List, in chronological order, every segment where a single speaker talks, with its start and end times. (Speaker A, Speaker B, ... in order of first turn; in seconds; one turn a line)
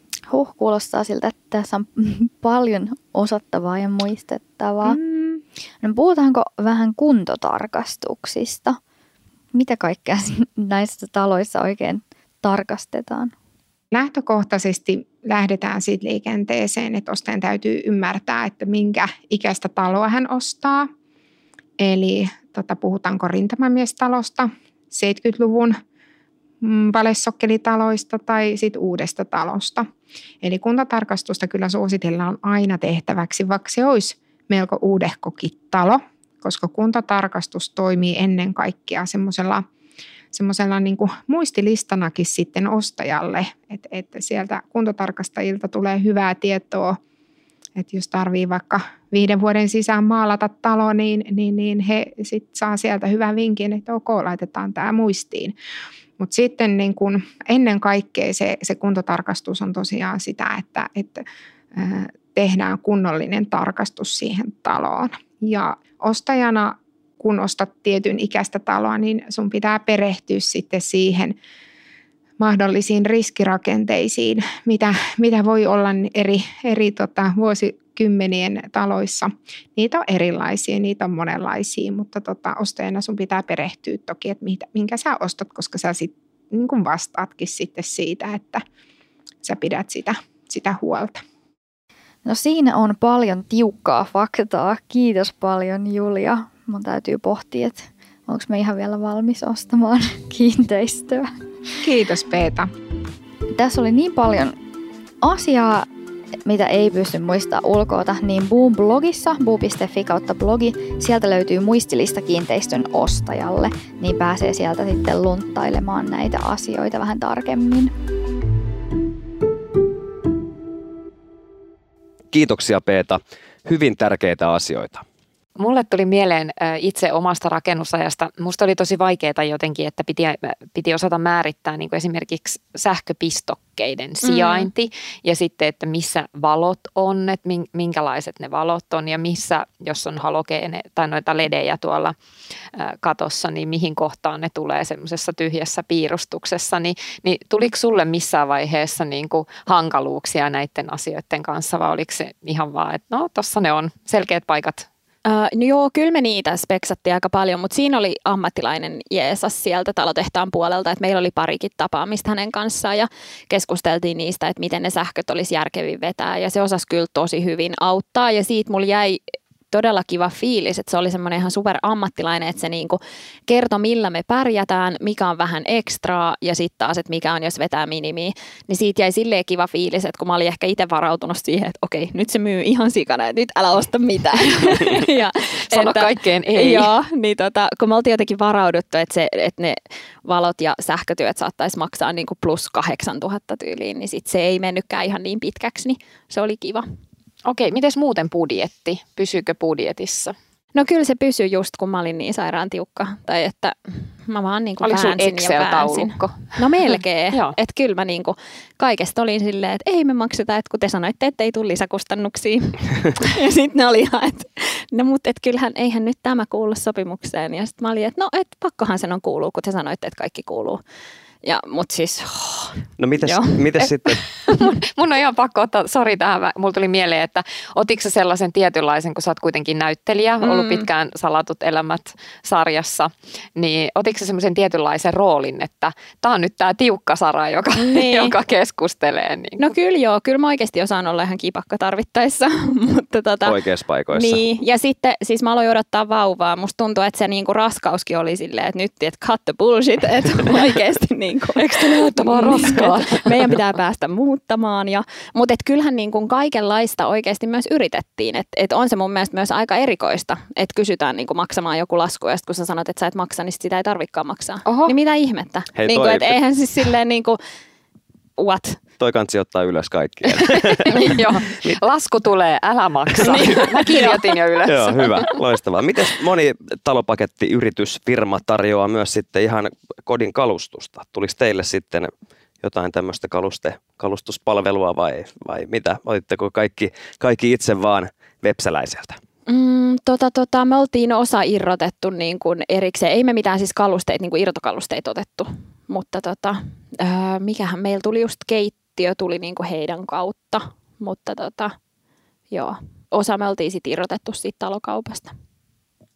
Speaker A: 0.3-5.0
Speaker B: 4.9-5.4
Speaker A: 5.8-8.8
Speaker A: 9.5-13.3
Speaker B: 13.9-20.9
Speaker B: 21.8-25.8
Speaker B: 26.6-29.9
Speaker B: 30.4-39.6
Speaker B: 40.3-47.0
Speaker B: 47.8-55.5
Speaker B: 56.2-71.4
Speaker B: 72.4-88.6
Speaker B: 89.4-91.2
Speaker A: 92.2-101.4
Speaker B: 101.8-102.7
Speaker A: 103.5-104.6
Speaker A: 105.2-105.9
Speaker A: 106.5-117.9
Speaker C: 122.3-125.0
Speaker D: 125.6-142.2
Speaker E: 134.2-134.7
Speaker D: 142.8-154.9
Speaker E: 155.3-196.9
Speaker D: 185.7-186.9
Speaker D: 197.5-200.3
Speaker E: 200.8-220.8
Speaker D: 204.8-207.6
Speaker E: 221.4-223.6
Speaker C: 223.0-224.2
Speaker D: 223.8-239.6
Speaker E: 230.4-230.9
Speaker E: 237.8-238.4
Speaker E: 239.6-243.6
Speaker C: 243.4-244.4
Speaker E: 244.1-267.4
Speaker D: 251.6-253.6
Speaker D: 264.6-264.9
Speaker C: 265.8-266.4
Speaker E: 268.4-268.8
Speaker C: 269.0-270.9
Speaker D: 270.9-275.3
Speaker C: 273.2-274.0
Speaker E: 273.2-274.1
Speaker C: 274.7-282.1
Speaker C: 282.6-289.2
Speaker E: 289.5-301.8
Speaker E: 302.5-305.3